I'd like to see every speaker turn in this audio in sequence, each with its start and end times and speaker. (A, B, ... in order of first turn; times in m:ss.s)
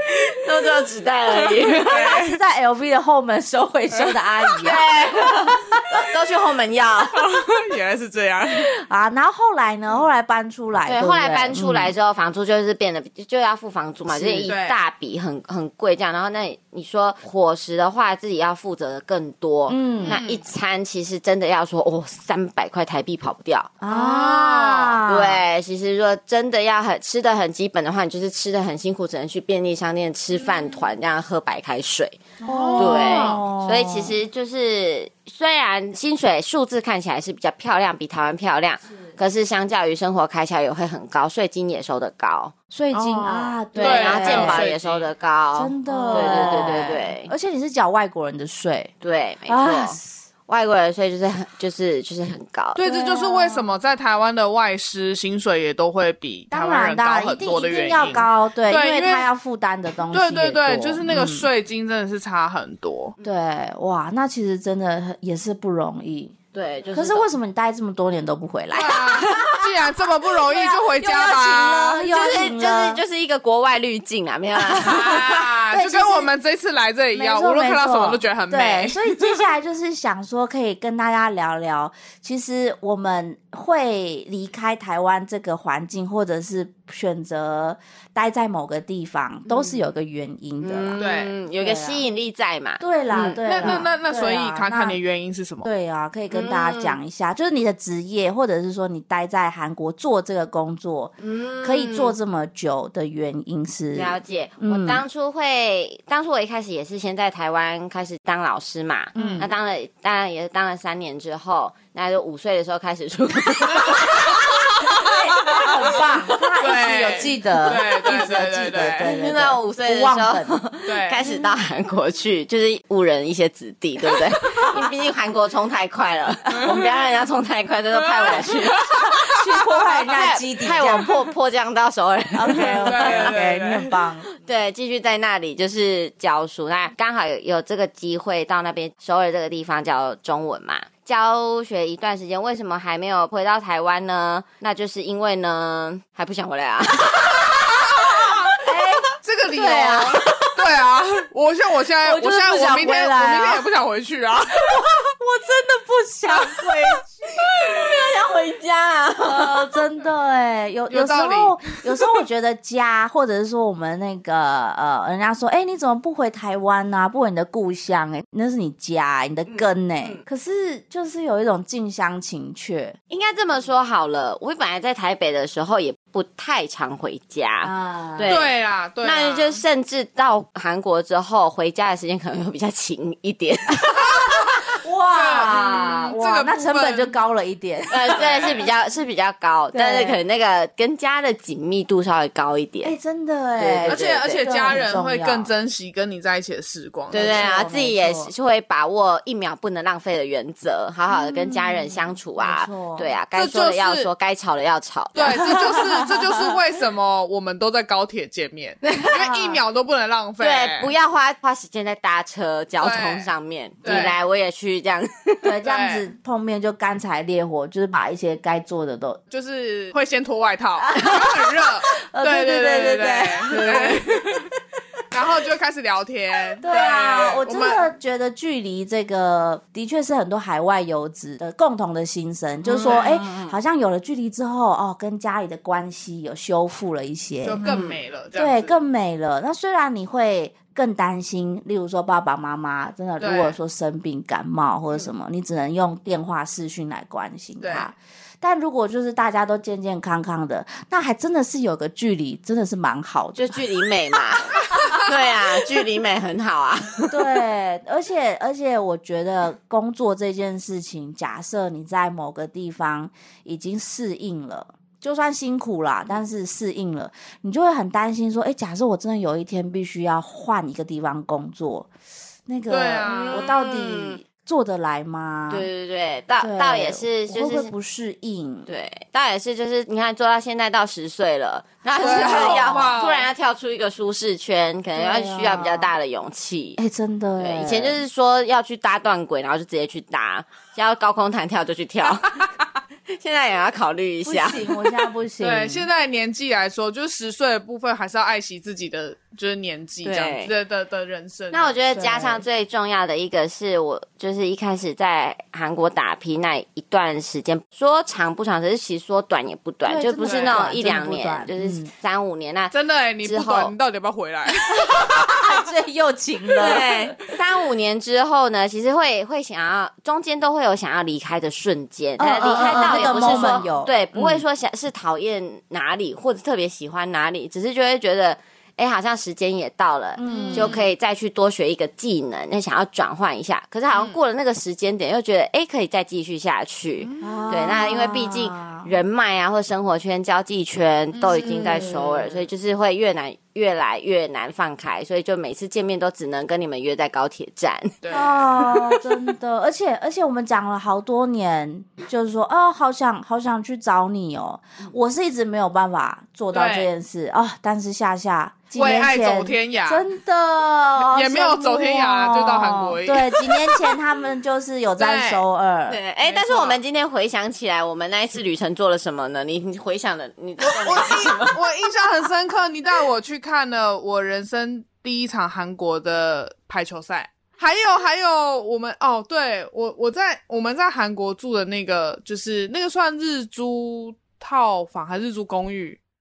0:00.4-0:02.0 A
0:01.4-0:02.4 B
0:01.8-0:05.8 C
0:03.9-0:04.2 B
0:04.6-0:07.2 A
0:07.1-0:08.7 B
0:08.6-0:11.9 C
0:10.9-0:23.7 A
0:14.1-0:14.5 C
0:14.5-0:14.8 B
0:19.7-0:20.2 C
0:20.0-0:20.4 B
0:23.8-0:25.4 C
0:23.9-0:25.0 B
0:25.1-0:32.2 A
0:32.4-0:33.4 B
0:32.4-0:34.2 C
0:32.8-0:42.5 A
0:42.7-0:44.7 C
0:42.9-0:45.1 B
0:43.7-0:47.3 A
0:45.6-0:48.9 C
0:45.9-0:46.9 B
0:49.0-0:52.8 A
0:49.5-0:50.2 C
0:52.8-0:59.3 B
0:52.8-0:53.7 C
0:56.5-1:01.5 C
1:00.1-1:03.2 B
1:03.2-1:06.4 C
1:06.5-1:07.3 A
1:06.9-1:09.5 C
1:08.7-1:12.1 B
1:09.1-1:09.6 A
1:10.4-1:13.0 C
1:12.1-1:15.4 A
1:14.7-1:19.4 B
1:14.9-1:16.3 C
1:17.1-1:31.0 C
1:29.5-1:29.8 A
1:30.6-1:33.9 A
1:31.0-1:31.3 B
1:31.6-1:32.0 C
1:32.8-1:35.0 C
1:33.4-1:35.7 B
1:35.6-1:45.0 C
1:36.3-1:37.0 A
1:41.2-1:42.2 A
1:44.0-1:54.4 A
1:49.2-1:49.5 C
1:49.2-1:49.5 B
1:54.5-1:55.9 B
1:54.9-2:00.6 C
1:56.6-1:59.1 B
1:58.9-2:08.9 A
2:00.9-2:01.2 B
2:08.2-2:10.1 B
2:09.2-2:11.2 C
2:10.1-2:13.3 A
2:12.3-2:14.3 C
2:12.5-2:14.0 B
2:14.4-2:27.4 A
2:27.4-2:30.5 C
2:27.5-2:28.5 B
2:29.2-2:34.9 B
2:32.0-2:33.6 C
2:34.7-2:37.1 C
2:36.3-2:36.7 B
2:37.5-2:39.5 A
2:39.2-2:53.0 C
2:40.9-2:42.2 B
2:49.5-2:50.2 A
2:53.1-2:58.5 A
2:57.6-2:58.4 C
2:58.3-2:59.6 B
2:59.0-3:04.0 A
3:03.9-3:08.2 C
3:04.1-3:07.1 B
3:07.9-3:13.0 A
3:08.1-3:08.6 B
3:09.7-3:10.2 C
3:12.8-3:15.5 C
3:13.6-3:14.5 A
3:13.9-3:17.5 B
3:17.1-3:25.5 A
3:17.1-3:18.3 C
3:21.1-3:23.1 C
3:23.3-3:24.1 B
3:25.2-3:30.9 B
3:25.4-3:26.4 C
3:29.1-3:29.6 C
3:30.4-3:35.5 A
3:32.8-3:33.3 B
3:33.8-3:34.2 B
3:33.9-3:34.1 C
3:35.4-3:39.2 C
3:35.6-3:36.1 B
3:39.3-3:44.5 B
3:40.9-3:44.4 C
3:45.1-3:47.8 B
3:46.6-3:57.7 C
3:52.7-3:53.5 B
3:57.4-3:58.8 B
3:57.6-3:57.9 A
3:58.3-4:13.6 C
4:03.2-4:03.6 B
4:07.6-4:07.9 B
4:13.4-4:17.2 A
4:17.1-4:31.9 C
4:32.5-4:35.7 C
4:32.7-4:33.4 B
4:33.1-4:34.2 A
4:35.5-4:37.7 A
4:36.4-4:38.7 C
4:38.7-4:46.8 A
4:41.9-4:42.9 C
4:42.0-4:43.3 B
4:45.0-4:45.9 C
4:46.8-4:48.0 C
4:47.4-4:52.5 A
4:53.1-4:54.6 A
4:54.3-4:55.9 C
4:55.4-5:01.8 B
5:00.0-5:00.5 A
5:01.5-5:13.7 A
5:01.9-5:02.4 C
5:09.9-5:11.9 C
5:10.2-5:10.8 B
5:12.7-5:15.5 B
5:14.8-5:17.2 C
5:16.6-5:48.0 A
5:22.2-5:24.4 C
5:22.5-5:23.7 B
5:30.2-5:30.8 C
5:30.3-5:30.8 B
5:33.9-5:34.2 B
5:37.0-5:37.5 B
5:37.2-5:38.9 C
5:41.1-5:41.8 B
5:41.3-5:42.5 C
5:48.0-5:48.8 B
5:48.1-6:06.0 C
5:56.5-5:56.9 B
5:58.8-6:00.1 B
6:01.0-6:04.0 B
6:05.0-6:05.4 B
6:05.9-6:11.6 A
6:06.2-6:06.8 B
6:10.6-6:26.0 B